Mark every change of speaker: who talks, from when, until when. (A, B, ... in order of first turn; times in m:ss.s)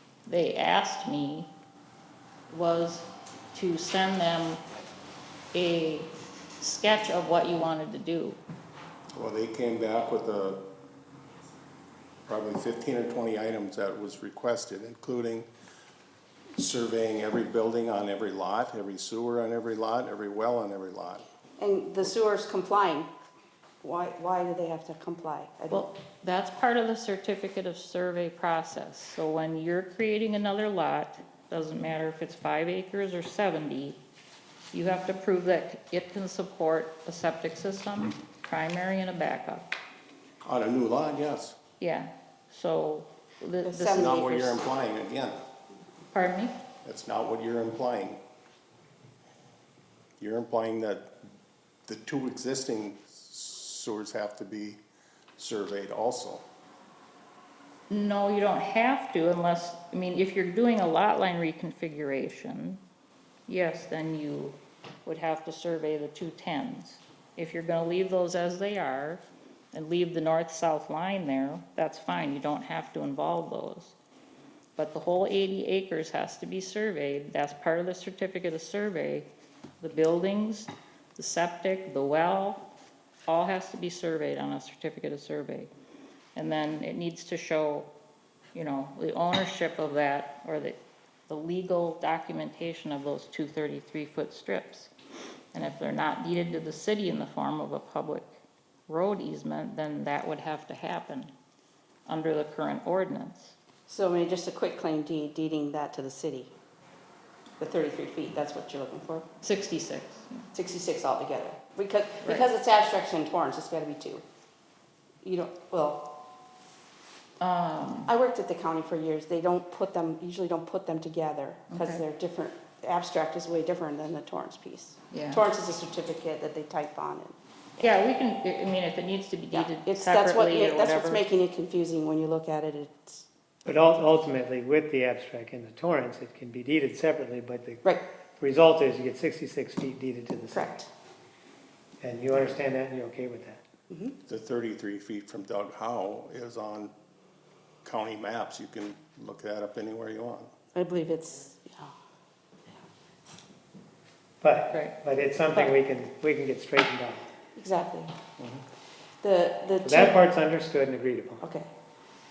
0:00.3-0:01.5 A
0:02.5-0:04.6 A
0:05.5-0:08.4 A
0:09.1-0:10.6 B
0:12.3-0:15.5 B
0:16.6-0:21.2 B
0:21.6-0:23.1 C
0:23.8-0:25.9 C
0:25.7-0:34.0 A
0:34.7-0:39.7 A
0:40.4-0:41.6 B
0:41.8-0:44.6 A
0:43.6-0:44.2 C
0:43.9-0:45.4 B
0:46.1-0:46.5 A
0:46.8-0:48.2 B
0:50.2-0:51.1 B
0:51.9-0:54.8 B
0:55.4-0:56.4 B
0:57.9-1:02.8 A
1:03.5-1:13.9 A
1:14.8-1:19.3 A
1:19.8-1:22.6 A
1:23.3-1:25.7 A
1:26.3-1:27.9 A
1:28.5-1:34.9 A
1:35.5-1:38.3 A
1:38.9-1:41.3 A
1:42.1-1:43.5 A
1:43.9-1:46.5 C
1:47.6-1:49.2 C
1:49.4-1:50.5 A
1:50.5-1:54.2 C
1:55.2-1:56.0 C
1:57.4-1:58.1 A
1:58.1-2:07.9 C
2:01.7-2:02.0 A
2:05.1-2:05.4 A
2:07.8-2:11.2 A
2:09.5-2:13.2 C
2:13.6-2:20.7 D
2:20.5-2:20.9 C
2:22.0-2:23.6 D
2:23.9-2:24.2 C
2:24.3-2:26.9 B
2:27.8-2:30.5 B
2:30.7-2:31.9 C
2:34.4-2:37.3 D
2:34.7-2:35.0 A
2:37.6-2:38.1 C
2:39.2-2:40.1 C
2:39.8-2:41.4 D
2:41.4-2:41.7 C